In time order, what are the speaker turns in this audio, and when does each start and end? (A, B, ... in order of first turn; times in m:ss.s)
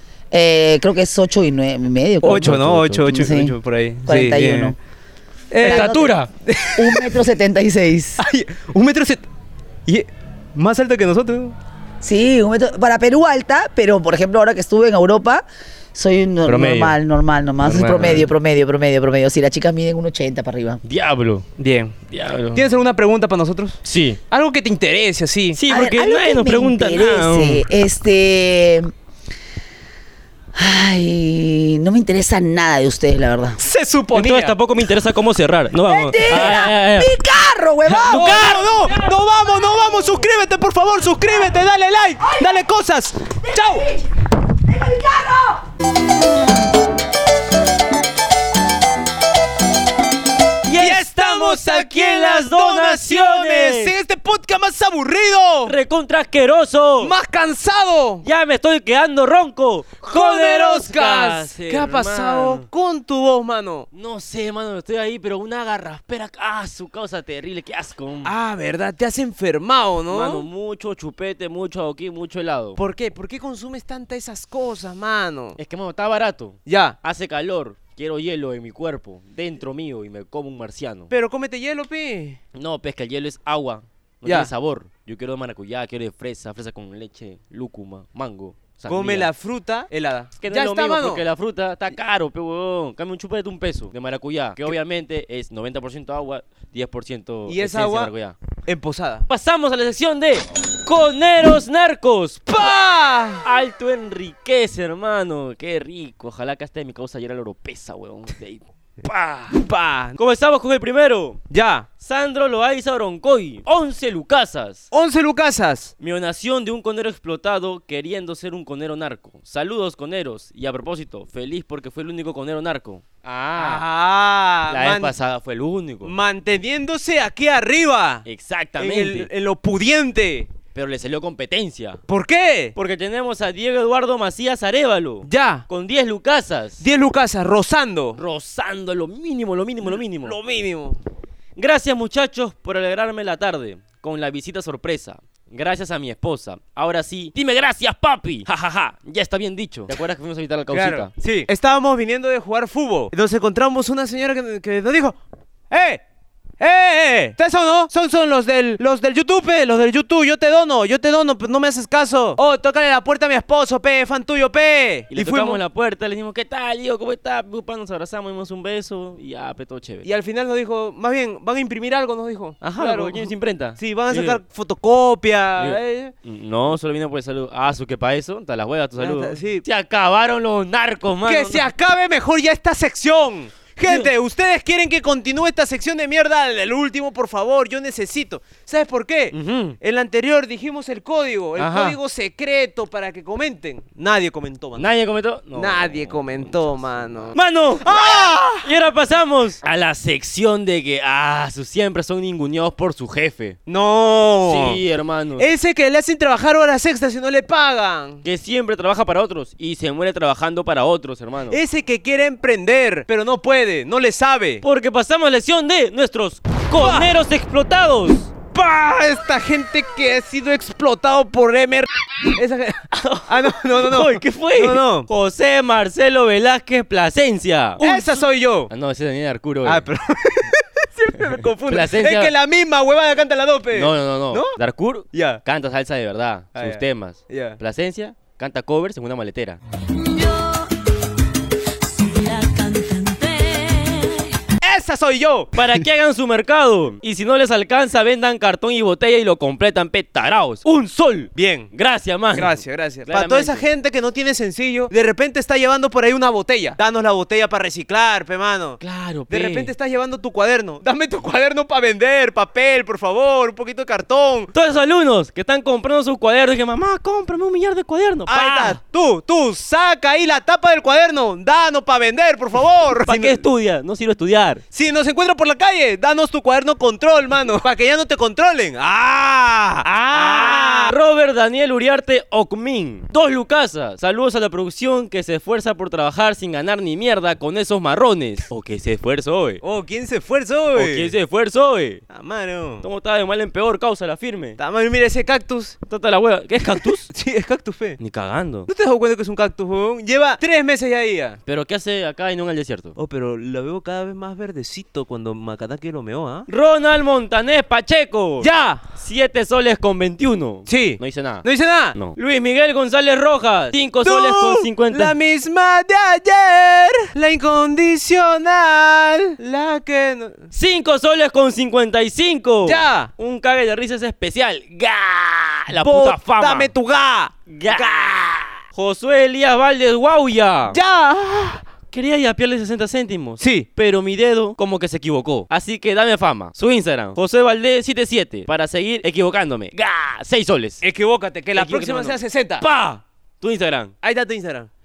0:00.3-0:04.8 A
0:02.2-0:03.2 B
0:02.2-0:04.7 C
0:05.5-0:07.2 C
0:05.6-0:06.2 A
0:05.6-0:06.3 B
0:06.8-0:08.2 A
0:08.2-0:09.2 C
0:09.8-0:11.5 C
0:12.0-0:15.4 A
0:15.9-0:20.8 A
0:16.4-0:17.0 B
0:17.6-0:18.3 B
0:20.8-0:21.5 B
0:21.6-0:21.9 C
0:22.1-0:22.6 B
0:22.5-0:25.6 C
0:23.8-0:24.2 B
0:25.5-0:27.6 B
0:25.7-0:28.9 A
0:30.5-0:33.6 A
0:33.6-0:34.6 C
0:34.1-0:37.1 B
0:35.8-0:38.5 A
0:37.9-0:39.0 B
0:38.0-0:43.9 C
0:43.6-0:44.0 A
0:44.7-0:45.6 A
0:50.6-0:54.0 B
0:50.8-0:55.7 C
0:55.6-0:57.1 B
0:57.0-0:58.2 C
0:58.2-1:02.6 B
1:00.1-1:03.9 C
1:03.9-1:08.3 B
1:08.2-1:10.4 C
1:10.1-1:12.8 B
1:12.8-1:15.6 C
1:15.6-1:21.1 B
1:16.6-1:17.0 C
1:21.1-1:22.4 C
1:22.5-1:29.3 B
1:28.9-1:31.2 C
1:30.4-1:38.3 B
1:37.5-1:38.1 C
1:38.6-1:39.3 C
1:39.3-1:42.8 B
1:42.5-1:43.4 C
1:43.4-1:49.6 B
1:49.5-1:50.2 C
1:50.2-1:51.4 B
1:51.5-1:51.9 C
1:52.0-1:54.9 B
1:54.9-1:55.9 C
1:56.0-2:03.8 B
2:03.6-2:05.1 C
2:04.7-2:06.1 B
2:06.0-2:08.2 C
2:08.2-2:09.3 B
2:08.8-2:10.5 C
2:10.7-2:12.0 B
2:12.1-2:12.7 C
2:12.7-2:16.8 B
2:15.2-2:15.6 C
2:16.8-2:18.2 C
2:18.2-2:20.4 B
2:20.2-2:21.0 C
2:21.6-2:31.1 B
2:30.7-2:35.2 C
2:35.7-2:36.0 C
2:36.6-2:45.6 C
2:45.1-2:50.1 B
2:50.0-2:56.1 C
2:52.6-2:54.4 B
2:55.6-3:01.7 B
2:59.0-2:59.6 C
3:01.2-3:14.8 C
3:03.8-3:04.1 B
3:09.3-3:09.8 B
3:11.6-3:12.0 B
3:14.8-3:23.6 B
3:15.5-3:18.7 C
3:23.7-3:24.8 C
3:24.4-3:25.5 B
3:25.4-3:28.2 C
3:28.2-3:31.6 B
3:31.5-3:34.6 C
3:34.6-3:38.3 B
3:36.8-3:37.1 C
3:38.5-3:45.1 C
3:42.9-3:49.9 B
3:47.8-3:48.7 C
3:49.6-3:54.6 C
3:51.6-3:52.3 B
3:53.7-3:59.6 B
3:55.1-3:55.4 C
3:56.6-3:57.6 C
4:02.1-4:04.3 B
4:04.6-4:05.7 C
4:05.5-4:13.7 B
4:11.3-4:11.7 C
4:12.3-4:24.5 C
4:18.8-4:19.7 B
4:24.5-4:28.8 B
4:28.3-4:33.4 C
4:33.0-4:34.6 B
4:34.7-4:40.9 C
4:39.8-4:49.6 B
4:49.6-4:51.1 C
4:50.7-4:52.0 B
4:52.1-4:52.8 C
4:52.8-4:54.6 B
4:54.6-4:55.8 C
4:55.9-4:57.1 B
4:57.1-4:58.0 C
4:58.0-4:58.7 B
4:58.7-5:01.4 C
5:01.4-5:03.0 B
5:03.0-5:06.5 C
5:06.5-5:15.2 B
5:08.4-5:08.8 C
5:10.7-5:12.0 C
5:14.0-5:20.4 C
5:20.5-5:26.7 B
5:22.6-5:23.1 C
5:25.7-5:28.6 C
5:27.5-5:30.8 B
5:30.7-5:31.6 C
5:31.9-5:40.8 B
5:33.4-5:33.7 C
5:40.8-5:42.6 C
5:41.5-5:43.9 B
5:44.0-5:44.7 C